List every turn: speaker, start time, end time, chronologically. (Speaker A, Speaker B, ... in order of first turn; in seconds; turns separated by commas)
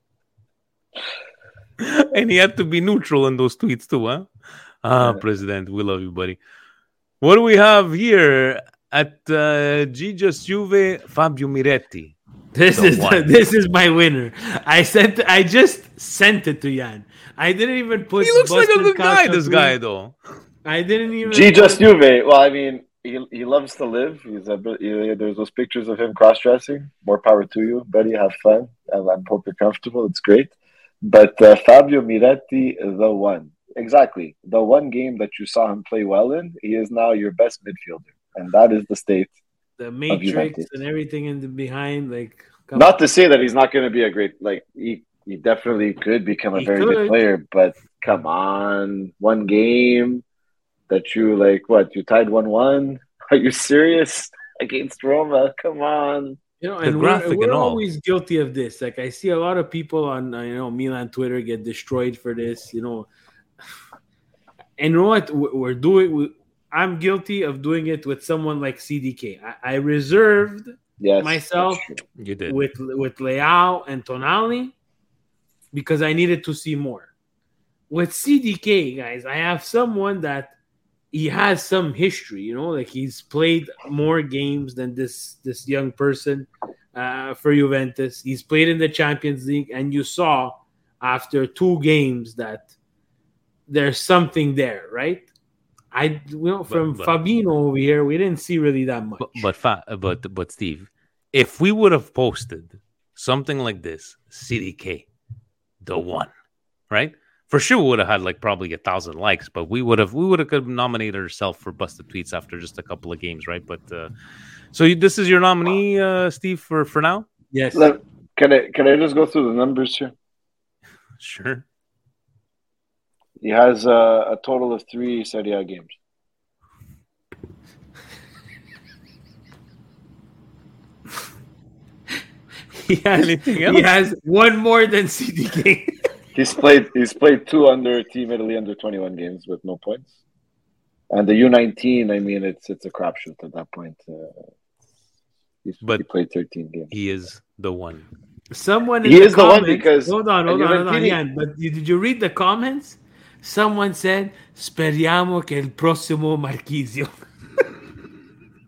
Speaker A: 1.8-4.3, Speaker A: 4.8-6.4, Speaker A: 7.2-13.3, Speaker B: 12.6-19.8, Speaker A: 18.2-20.2, Speaker B: 20.7-21.8, Speaker C: 21.3-30.5, Speaker C: 31.0-39.3, Speaker B: 39.8-43.0, Speaker C: 40.1-40.7, Speaker C: 42.8-50.2, Speaker B: 46.5-47.2, Speaker C: 50.9-56.4, Speaker B: 56.6-63.1, Speaker A: 56.8-57.8, Speaker B: 64.8-71.8, Speaker C: 71.0-72.0, Speaker A: 72.2-72.6, Speaker B: 72.5-74.7, Speaker B: 75.7-77.1, Speaker B: 77.9-80.5, Speaker B: 81.1-92.7, Speaker B: 93.7-95.3, Speaker B: 95.9-99.5, Speaker A: 96.7-97.1, Speaker A: 99.2-105.1, Speaker A: 105.8-106.3, Speaker A: 106.9-114.1, Speaker A: 114.7-117.3, Speaker B: 117.5-117.9, Speaker C: 117.7-120.1, Speaker A: 121.2-121.6, Speaker C: 123.4-125.9, Speaker B: 132.8-135.9, Speaker A: 133.2-133.9, Speaker C: 136.3-140.1, Speaker C: 141.1-144.4, Speaker C: 145.6-146.9, Speaker A: 146.9-148.1, Speaker B: 148.5-157.1, Speaker C: 149.0-151.2